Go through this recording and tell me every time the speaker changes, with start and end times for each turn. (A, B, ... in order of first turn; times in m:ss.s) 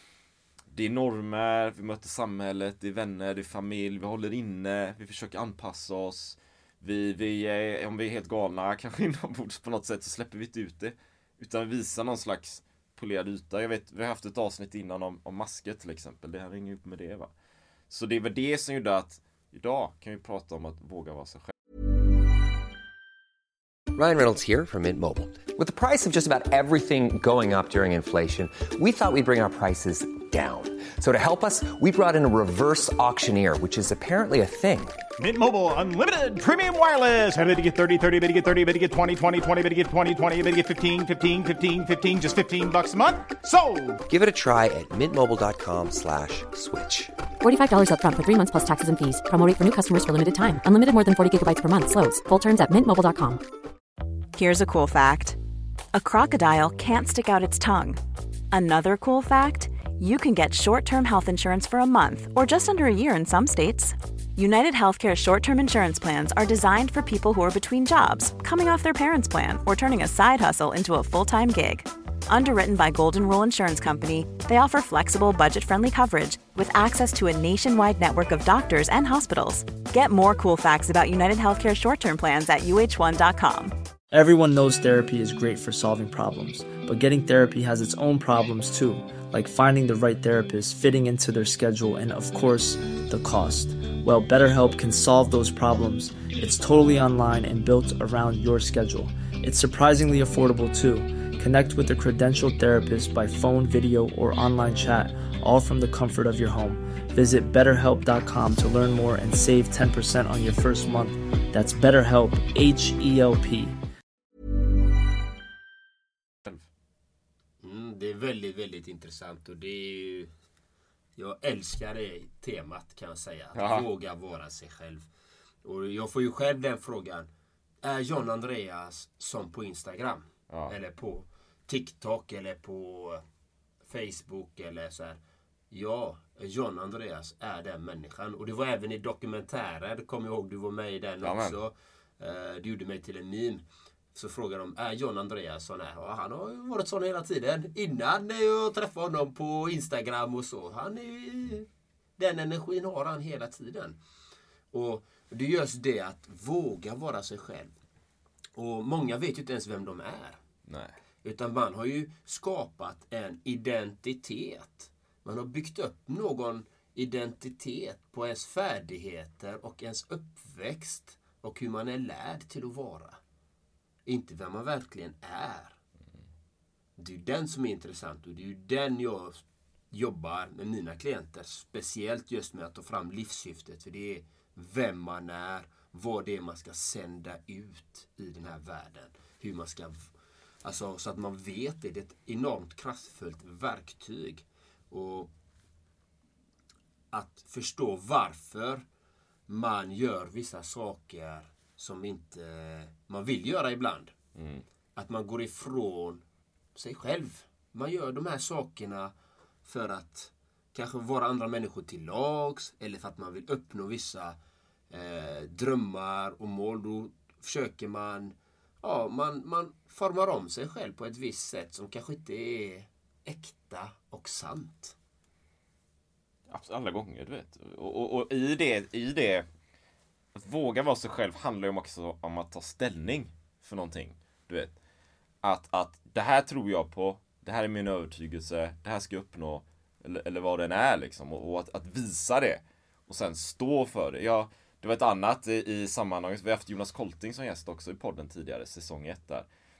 0:00.7-0:17.3 A
0:17.9-0:21.5 A
0:23.9-0:35.0 B
0:35.2-0:44.0 C
0:44.1-0:47.1 B
0:47.4-0:53.4 D
0:54.3-0:55.4 E
0:55.9-0:58.0 E
0:58.5-1:23.8 E
1:24.1-1:53.8 F
1:57.6-2:00.3 G
2:01.2-2:05.1 G
2:03.5-2:03.8 A
2:05.6-2:07.3 G
2:07.8-2:13.2 G
2:13.9-2:15.2 G
2:15.7-2:23.6 G
2:21.2-2:21.5 A
2:24.1-2:34.0 G
2:34.7-2:37.7 G
2:38.6-2:40.4 G
2:40.7-2:40.9 A
2:41.2-2:53.2 G
2:54.0-2:55.8 G
2:57.0-3:10.1 G
3:10.6-3:15.3 G
3:17.1-3:18.8 G
3:19.5-3:24.1 G
3:24.4-3:24.6 A
3:25.0-3:26.2 G
3:26.7-3:29.1 G
3:29.6-3:34.4 G
3:34.9-3:45.0 G
3:46.5-3:49.4 A
3:50.4-3:54.7 A
3:55.4-4:09.5 A